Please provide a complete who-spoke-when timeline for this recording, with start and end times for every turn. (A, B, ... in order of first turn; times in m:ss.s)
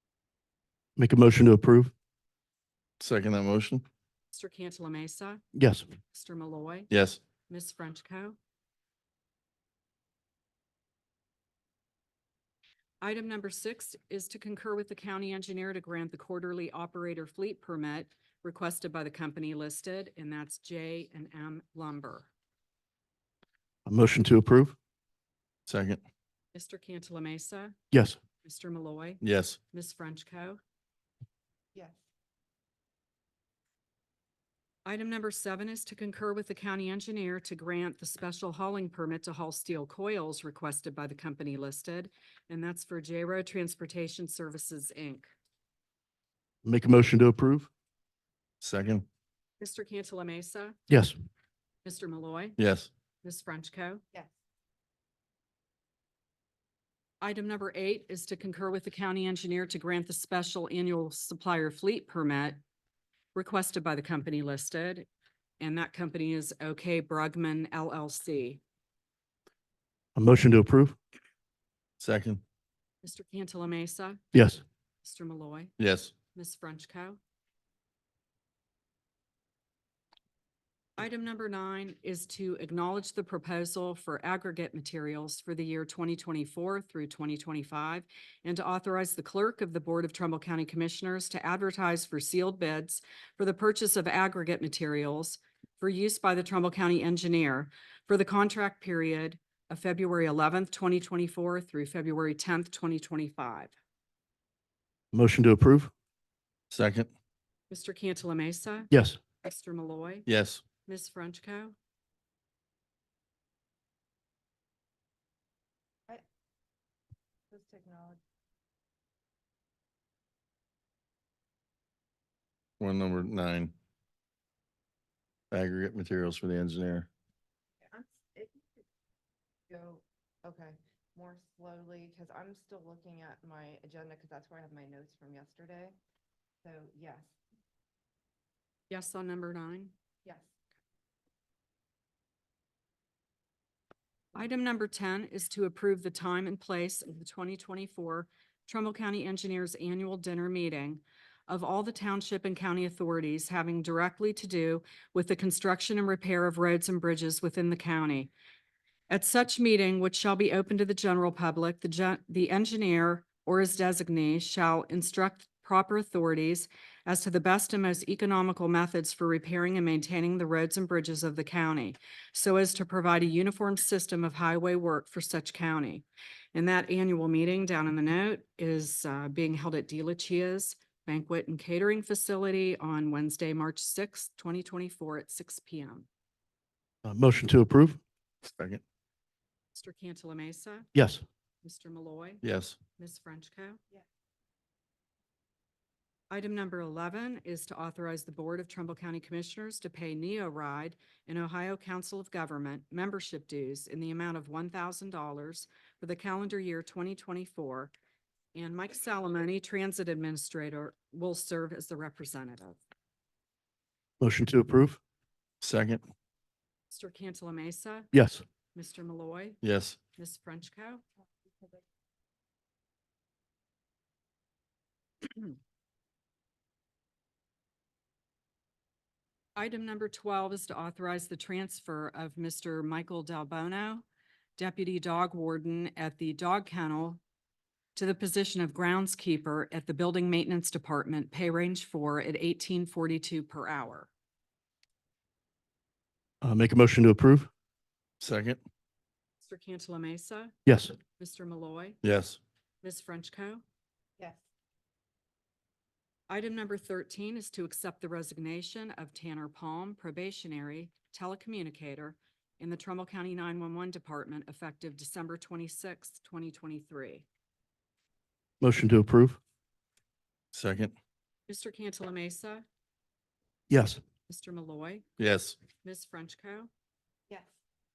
0:01.0-0:01.9 A
0:03.0-0:03.8 B
0:04.3-0:05.4 C
0:05.5-0:05.8 A
0:06.1-0:06.9 C
0:06.9-0:07.2 B
0:07.5-0:08.4 C
0:13.0-0:22.3 C
0:23.9-0:24.8 A
0:25.7-0:26.0 B
0:26.5-0:27.8 C
0:27.9-0:28.2 A
0:28.4-0:29.2 C
0:29.2-0:29.6 B
0:29.7-0:30.6 C
0:34.8-0:45.3 C
0:46.6-0:47.7 A
0:48.6-0:49.0 B
0:49.6-0:50.8 C
0:50.9-0:51.2 A
0:51.8-0:52.6 C
0:52.6-0:52.9 B
0:53.2-0:54.0 C
0:57.2-1:02.6 C
1:03.4-1:05.1 C
1:05.6-1:08.6 C
1:10.1-1:11.0 A
1:12.0-1:12.4 B
1:13.0-1:14.2 C
1:14.3-1:14.6 A
1:15.0-1:15.7 C
1:15.8-1:16.1 B
1:16.3-1:17.2 C
1:21.0-1:43.7 C
1:45.1-1:45.9 A
1:46.7-1:47.1 B
1:47.7-1:48.9 C
1:48.9-1:49.2 A
1:49.4-1:50.3 C
1:50.3-1:50.6 B
1:50.8-1:51.7 C
1:57.5-1:58.2 D
2:02.8-2:03.7 B
2:05.5-2:07.1 B
2:07.9-2:08.8 D
2:09.7-2:16.0 D
2:16.6-2:17.3 D
2:18.9-2:19.9 C
2:24.3-2:38.3 C
2:39.1-3:06.1 C
3:07.0-3:08.0 A
3:08.6-3:08.8 B
3:09.8-3:10.9 C
3:10.9-3:11.2 A
3:11.6-3:12.4 C
3:12.4-3:12.8 B
3:13.0-3:13.8 C
3:16.3-3:27.9 C
3:28.6-3:32.8 C
3:34.2-3:35.0 A
3:35.6-3:36.0 B
3:36.9-3:38.1 C
3:38.1-3:38.4 A
3:38.7-3:39.6 C
3:39.6-3:40.0 B
3:40.2-3:41.0 C
3:49.6-3:54.0 C
3:54.6-3:57.2 C
3:58.0-4:04.1 C
4:06.4-4:07.5 A
4:08.2-4:08.6 B
4:09.4-4:10.5 C
4:10.7-4:11.0 A
4:11.2-4:12.0 C
4:12.0-4:12.4 B
4:12.8-4:13.6 C
4:16.3-4:27.2 C
4:28.6-4:29.4 A
4:30.5-4:30.9 B
4:31.5-4:32.6 C
4:33.7-4:34.0 A
4:34.3-4:35.0 C
4:35.2-4:35.6 B
4:35.8-4:36.7 C